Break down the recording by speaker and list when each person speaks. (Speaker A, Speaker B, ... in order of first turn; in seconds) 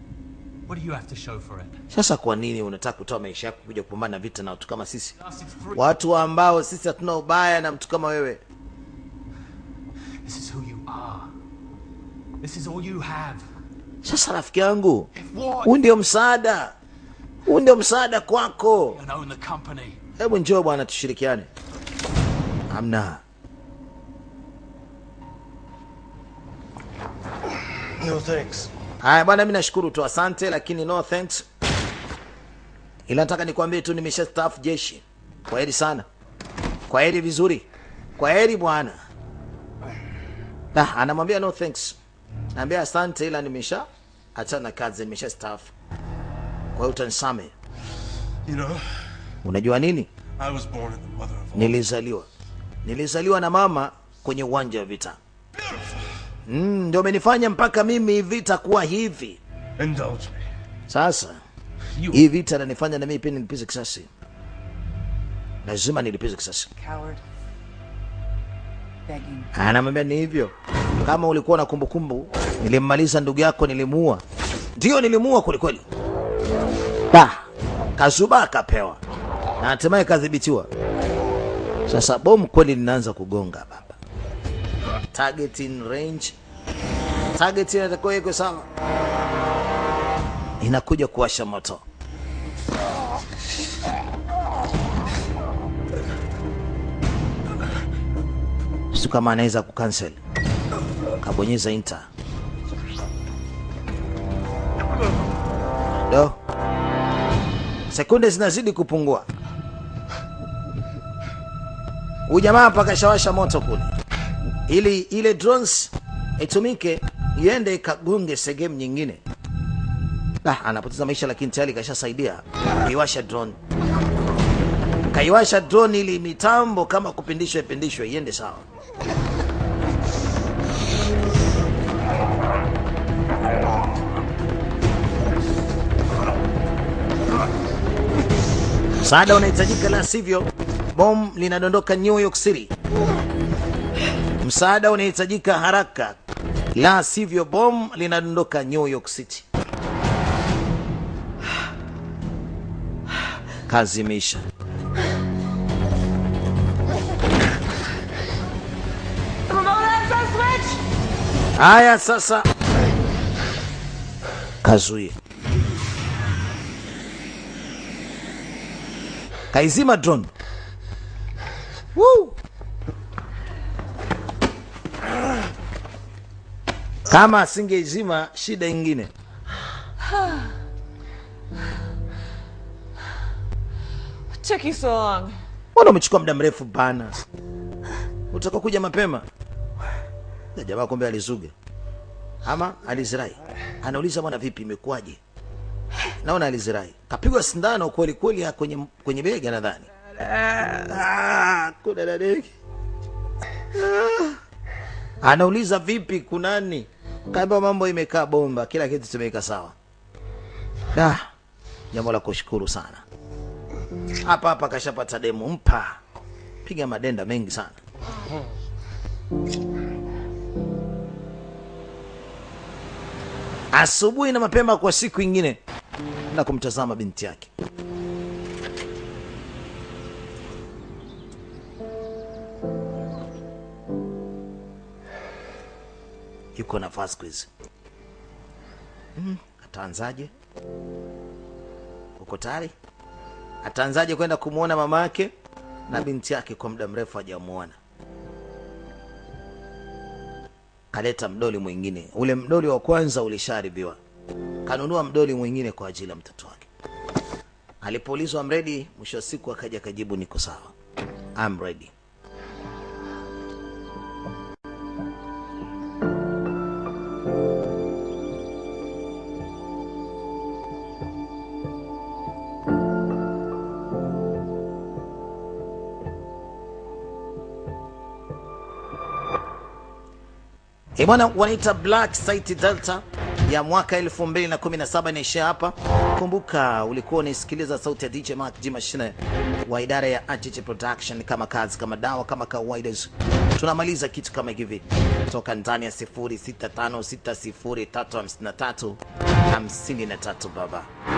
Speaker A: 0.7-1.8, 5.2-5.9, 10.2-11.3, 12.4-13.4, 15.1-15.8, 18.9-20.0, 159.5-160.8
Speaker B: 1.9-5.1, 5.7-8.4, 14.0-15.1, 15.6-16.7, 17.5-19.0, 20.2-21.5, 22.7-23.2, 29.0-31.4, 33.1-36.0, 36.9-37.6, 38.2-39.0, 40.7-42.0, 42.5-45.7, 46.7-47.5, 49.4-50.1, 51.5-52.3, 52.8-55.2, 56.5-59.4, 60.9-61.4, 62.1-64.1, 65.6-66.7, 69.5-74.2, 74.8-75.8, 77.1-77.4, 78.0-79.0, 79.6-80.7, 81.9-84.0, 85.1-86.3, 87.3-88.7, 90.6-91.8, 98.9-100.2, 101.2-102.1, 106.1-106.4, 107.9-109.3, 112.3-113.9, 114.7-119.2, 120.4-123.6, 125.1-128.6, 139.0-142.7, 144.4-146.2, 146.7-149.4, 153.7-154.4, 161.6-162.5, 164.6-165.1, 169.5-170.3, 171.9-172.3, 177.1-179.1, 185.7-187.2, 188.3-189.2, 190.6-191.5, 192.4-195.2, 196.2-202.5, 203.7-204.4, 205.2-209.7, 210.9-211.3, 211.9-213.0, 214.2-216.0, 216.6-217.8, 223.7-225.6, 226.3-227.5, 236.6-237.5, 239.2-240.3, 242.2-242.7, 243.6-245.3, 245.9-247.8, 250.9-254.0, 254.7-256.7, 257.8-260.7, 261.4-261.9, 281.0-300.9
Speaker C: 28.0-28.7, 48.4-48.8, 50.4-51.9, 55.6-55.9, 59.8-60.4, 62.0-62.2
Speaker D: 66.8-67.2, 69.1-69.5, 180.1-180.5, 184.3-185.4